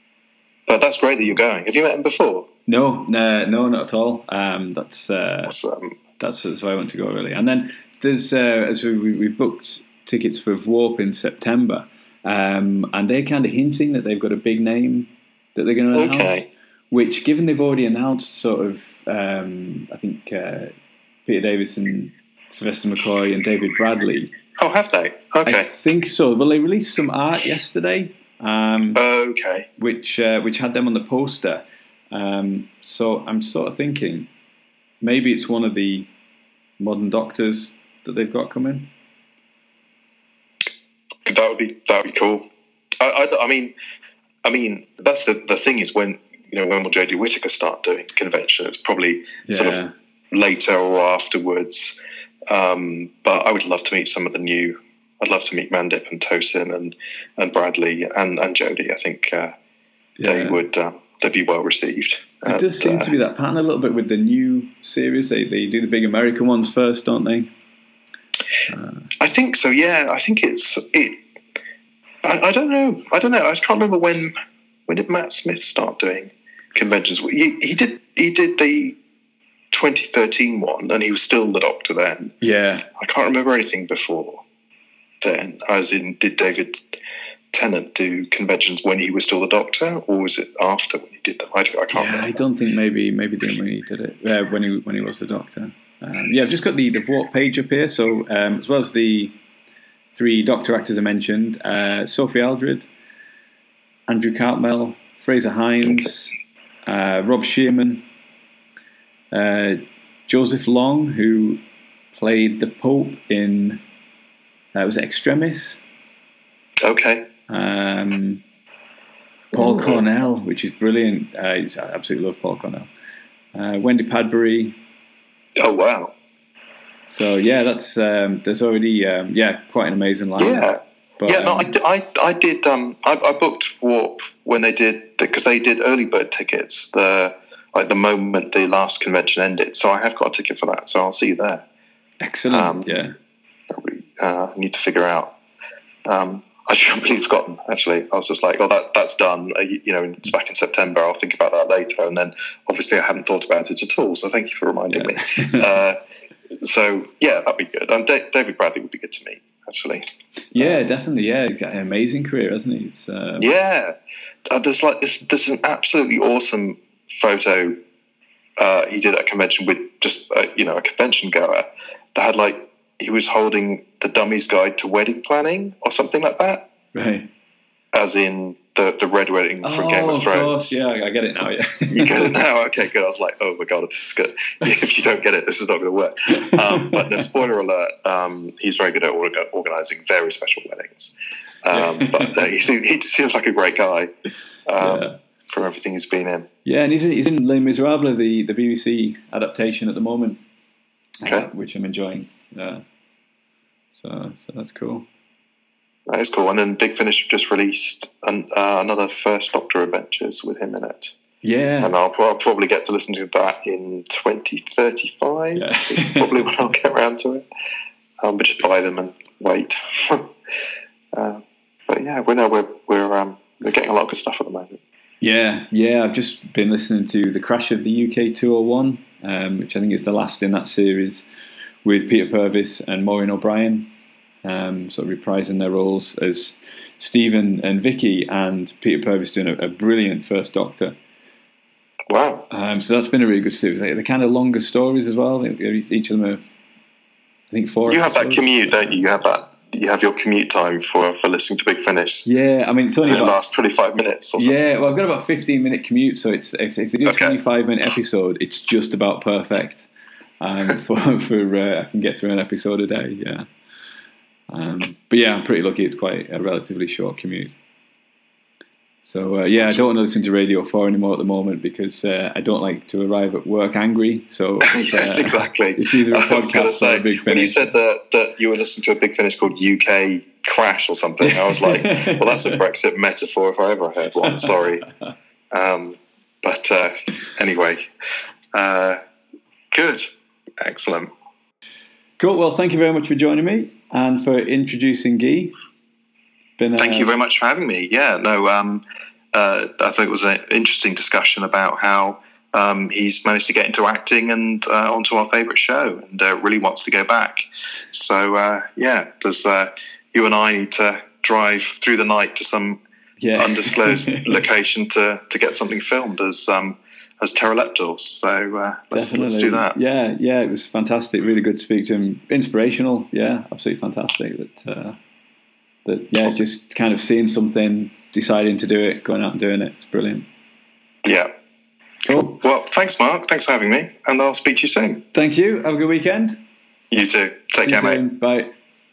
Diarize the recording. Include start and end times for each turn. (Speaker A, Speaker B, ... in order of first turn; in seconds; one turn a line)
Speaker A: 0.7-2.5
Speaker B: 2.7-5.6
Speaker A: 5.5-6.0
Speaker B: 6.2-20.7
Speaker A: 15.9-16.5
Speaker B: 21.3-24.3
Speaker A: 24.6-25.7
Speaker B: 25.4-29.0
Speaker A: 28.9-29.7
Speaker B: 29.8-34.3
Speaker B: 35.0-36.1
Speaker B: 36.8-38.9
Speaker A: 41.2-42.5
Speaker A: 43.0-43.7
Speaker A: 44.4-49.8
Speaker B: 49.5-49.9
Speaker A: 50.3-52.0
Speaker A: 52.5-59.5
Speaker B: 60.2-60.6
Speaker A: 60.2-63.1
Speaker B: 62.5-67.5
Speaker B: 68.7-69.1
Speaker A: 69.2-71.2
Speaker A: 72.2-74.3
Speaker A: 74.9-79.0
Speaker A: 79.7-82.3
Speaker B: 82.4-82.9
Speaker A: 83.0-84.4
Speaker A: 85.2-87.0
Speaker A: 87.5-92.4
Speaker B: 91.9-99.3
Speaker B: 100.2-102.9
Speaker B: 104.1-106.3
Speaker B: 106.9-108.0
Speaker B: 109.3-111.6
Speaker B: 112.1-113.8
Speaker B: 114.7-115.8
Speaker A: 116.8-117.3
Speaker B: 117.5-118.4
Speaker A: 119.5-120.0
Speaker B: 119.5-122.9
Speaker B: 123.5-124.8
Speaker A: 125.6-126.1
Speaker B: 127.1-131.7
Speaker A: 130.4-141.7
Speaker B: 142.2-143.1
Speaker A: 142.5-143.0
Speaker A: 143.7-145.3
Speaker A: 146.1-156.0
Speaker B: 154.9-155.7
Speaker A: 156.6-160.9
Speaker B: 160.5-163.5
Speaker A: 163.4-163.9
Speaker A: 164.5-167.8
Speaker A: 168.6-176.7
Speaker B: 176.9-177.3
Speaker A: 177.9-180.8
Speaker B: 179.6-182.3
Speaker A: 181.9-194.1
Speaker B: 186.5-187.2
Speaker B: 191.7-192.5
Speaker A: 194.7-196.5
Speaker B: 194.8-195.2
Speaker B: 196.7-200.4
Speaker B: 201.2-202.8
Speaker A: 201.2-201.5
Speaker B: 203.9-205.1
Speaker A: 206.1-211.1
Speaker B: 211.4-211.9
Speaker A: 211.8-217.4
Speaker B: 215.6-216.4
Speaker A: 218.2-220.3
Speaker A: 221.1-224.8
Speaker B: 225.2-231.3
Speaker B: 231.8-233.9
Speaker B: 234.4-240.9
Speaker A: 242.1-242.5
Speaker B: 242.5-246.4
Speaker B: 247.5-249.0
Speaker A: 247.9-252.3
Speaker B: 252.3-253.4
Speaker A: 253.0-254.6
Speaker B: 254.4-259.9
Speaker A: 257.1-257.4
Speaker B: 260.4-263.5
Speaker B: 264.5-267.6
Speaker B: 269.1-277.7
Speaker A: 269.6-269.9
Speaker A: 274.7-284.9
Speaker B: 281.2-282.6
Speaker A: 285.5-287.9
Speaker A: 288.5-289.0
Speaker A: 289.7-291.1
Speaker B: 292.2-295.6
Speaker B: 296.6-297.1
Speaker A: 296.8-312.8
Speaker B: 313.2-314.4
Speaker A: 313.4-319.7
Speaker B: 318.9-325.0
Speaker B: 325.9-330.3
Speaker A: 331.0-331.3
Speaker B: 332.1-332.4
Speaker A: 332.1-335.0
Speaker B: 335.1-336.4
Speaker A: 336.9-338.0
Speaker B: 337.6-338.5